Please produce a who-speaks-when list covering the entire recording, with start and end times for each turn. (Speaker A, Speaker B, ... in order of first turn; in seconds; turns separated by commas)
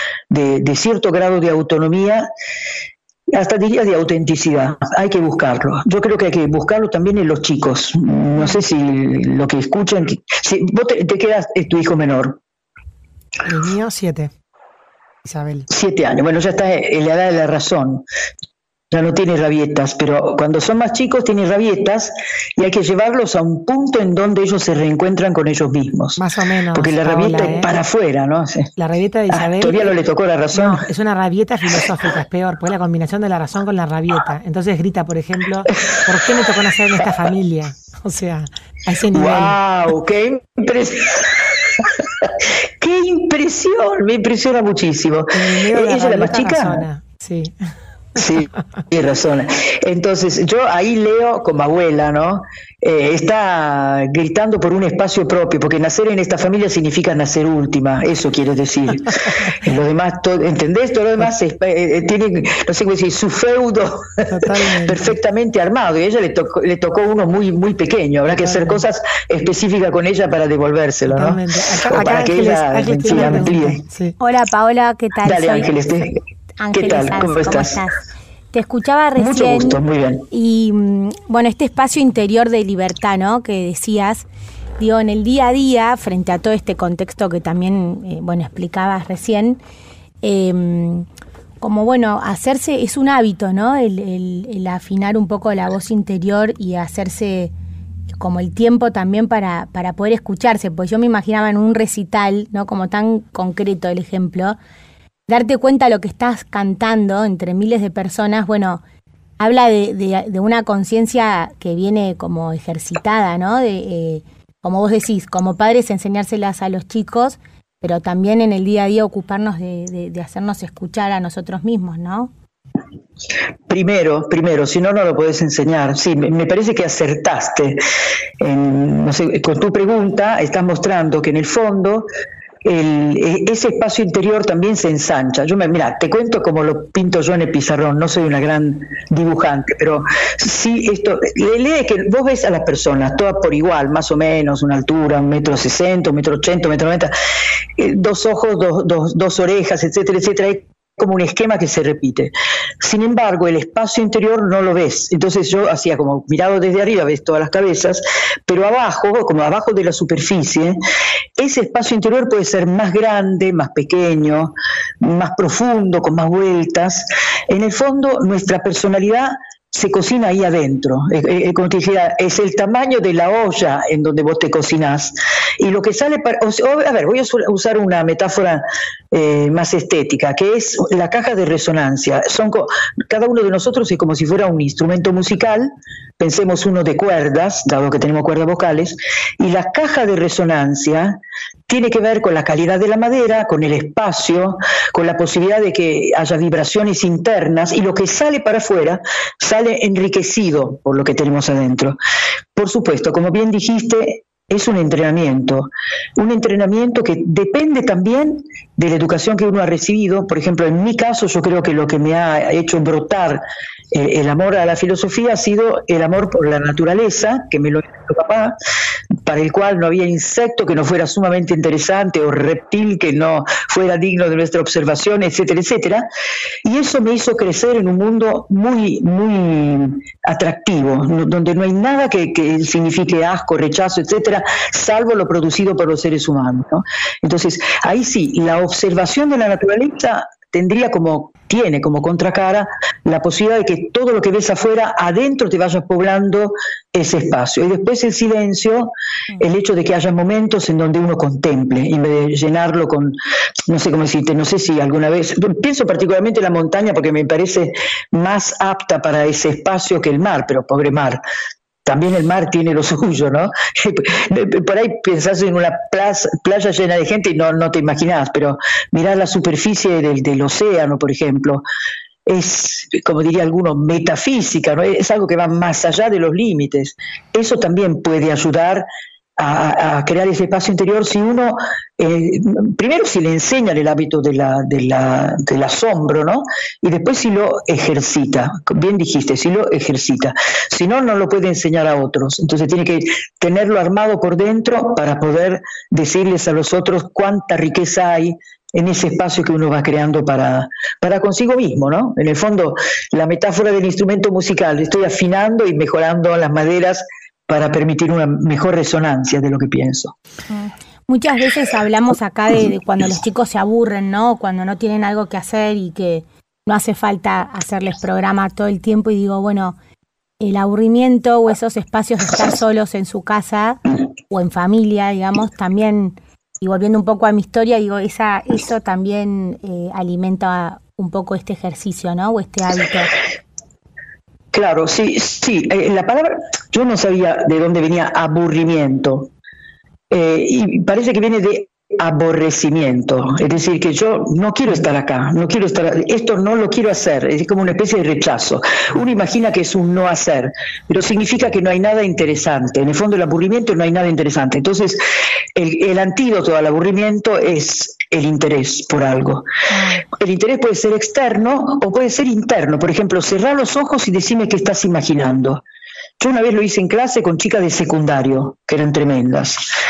Speaker A: 0.3-2.2, Speaker A: 3.3-12.4, Speaker B: 13.4-14.3, Speaker B: 15.2-15.7, Speaker A: 15.7-18.0, Speaker A: 18.9-26.2, Speaker B: 26.2-27.7, Speaker A: 26.7-28.7, Speaker B: 28.8-29.9, Speaker A: 29.3-30.8, Speaker B: 30.5-39.6, Speaker A: 39.1-46.8, Speaker B: 45.3-47.5, Speaker A: 48.1-64.2, Speaker B: 48.2-48.6, Speaker B: 64.3-65.1, Speaker A: 64.8-73.8, Speaker B: 68.3-68.8, Speaker B: 71.1-74.2, Speaker C: 74.2-75.9, Speaker A: 75.2-76.2, Speaker C: 76.6-84.2, Speaker A: 76.7-77.8, Speaker A: 79.2-80.2, Speaker C: 84.8-89.6, Speaker C: 90.2-91.0, Speaker C: 91.6-97.5, Speaker C: 98.1-104.6, Speaker C: 105.3-108.8, Speaker C: 109.4-122.3, Speaker A: 123.7-127.8, Speaker A: 128.4-132.0, Speaker A: 132.6-147.1, Speaker A: 147.8-160.8, Speaker A: 161.4-202.0, Speaker A: 202.6-218.5, Speaker A: 219.2-226.0, Speaker A: 226.6-253.1, Speaker A: 253.7-261.2, Speaker A: 261.9-271.6, Speaker A: 272.3-278.9, Speaker A: 279.4-310.1, Speaker C: 310.5-319.8, Speaker C: 320.4-333.2, Speaker A: 334.5-339.3, Speaker A: 340.1-355.0, Speaker A: 355.6-359.4, Speaker C: 359.7-360.0, Speaker A: 360.2-365.6, Speaker A: 366.2-369.6